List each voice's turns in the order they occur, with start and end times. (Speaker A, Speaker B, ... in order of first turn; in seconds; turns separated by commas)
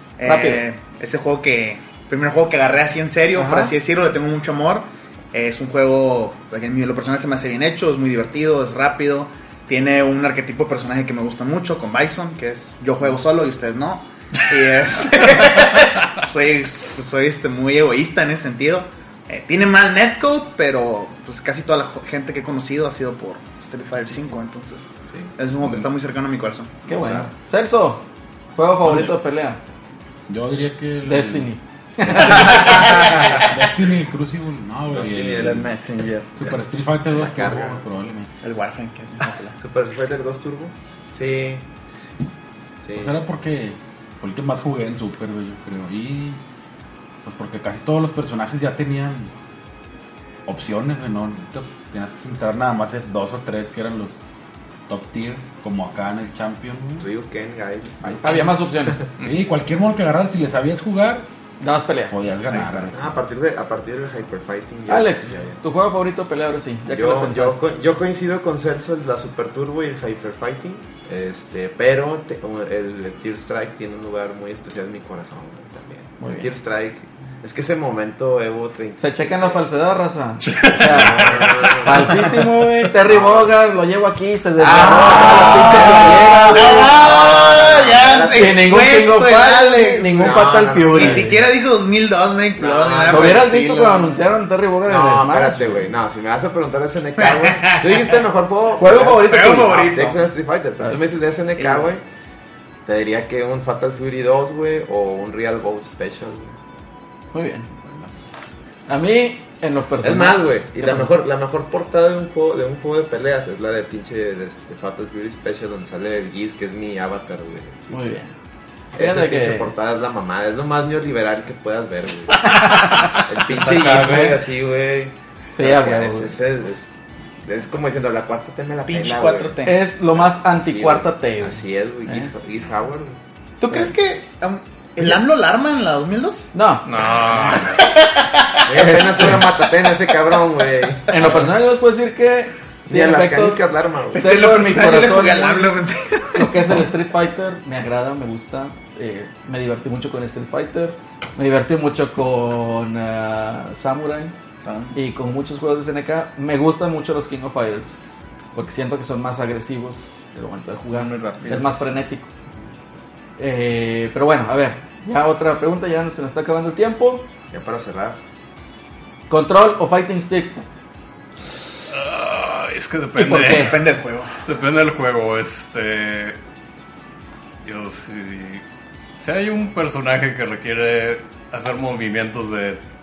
Speaker A: 0.2-26.8, Speaker B: 0.2-0.6, Speaker B: 3.4-3.7, Speaker B: 26.9-29.6, Speaker C: 26.9-27.3, Speaker D: 28.9-29.1, Speaker D: 30.3-31.5, Speaker B: 31.1-33.0, Speaker D: 32.1-35.6, Speaker C: 34.9-35.7, Speaker E: 35.4-36.5, Speaker D: 36.4-38.3, Speaker C: 37.1-37.8, Speaker A: 38.4-39.6, Speaker C: 39.6-41.7, Speaker C: 42.8-43.2, Speaker D: 43.0-46.4, Speaker D: 47.2-49.3, Speaker D: 50.5-54.2, Speaker D: 54.9-57.1, Speaker C: 57.0-58.5, Speaker B: 58.2-59.1, Speaker D: 59.2-61.2, Speaker B: 61.6-62.1, Speaker D: 62.1-63.2, Speaker C: 62.9-65.6, Speaker B: 64.9-67.6, Speaker C: 66.9-79.6, Speaker B: 76.2-76.5, Speaker B: 79.0-86.9, Speaker F: 80.4-81.7, Speaker C: 80.7-82.4, Speaker C: 83.1-83.5, Speaker C: 84.6-88.8, Speaker A: 84.7-90.3, Speaker B: 88.3-91.4, Speaker C: 90.0-91.5, Speaker A: 90.9-94.2, Speaker C: 92.6-93.5, Speaker B: 93.1-95.9, Speaker C: 94.8-102.0, Speaker A: 97.2-98.1, Speaker B: 98.8-99.8, Speaker A: 99.0-100.3, Speaker A: 101.6-101.8, Speaker C: 102.8-106.6, Speaker B: 107.3-107.7, Speaker B: 108.9-111.1, Speaker C: 110.0-118.0, Speaker B: 117.9-118.3, Speaker C: 118.9-126.9, Speaker B: 119.0-119.7, Speaker B: 122.5-123.1, Speaker E: 123.5-124.5, Speaker B: 125.5-126.3, Speaker C: 127.4-129.6, Speaker A: 128.9-129.8, Speaker B: 129.7-132.3, Speaker C: 130.2-133.2, Speaker A: 133.6-136.5, Speaker B: 136.5-136.8, Speaker F: 136.8-137.8, Speaker A: 137.6-139.4, Speaker C: 138.7-141.2, Speaker B: 141.1-143.6, Speaker C: 142.9-144.4, Speaker A: 144.1-146.7, Speaker B: 144.1-145.8, Speaker B: 146.3-154.3, Speaker E: 154.6-155.0, Speaker B: 154.9-157.9, Speaker B: 158.6-162.3, Speaker E: 160.9-161.7, Speaker B: 163.4-167.3, Speaker C: 167.5-168.2, Speaker B: 169.3-170.6, Speaker F: 171.9-173.9, Speaker B: 173.2-173.8, Speaker A: 173.4-174.3, Speaker F: 174.5-176.4, Speaker F: 177.6-178.6, Speaker F: 179.2-182.8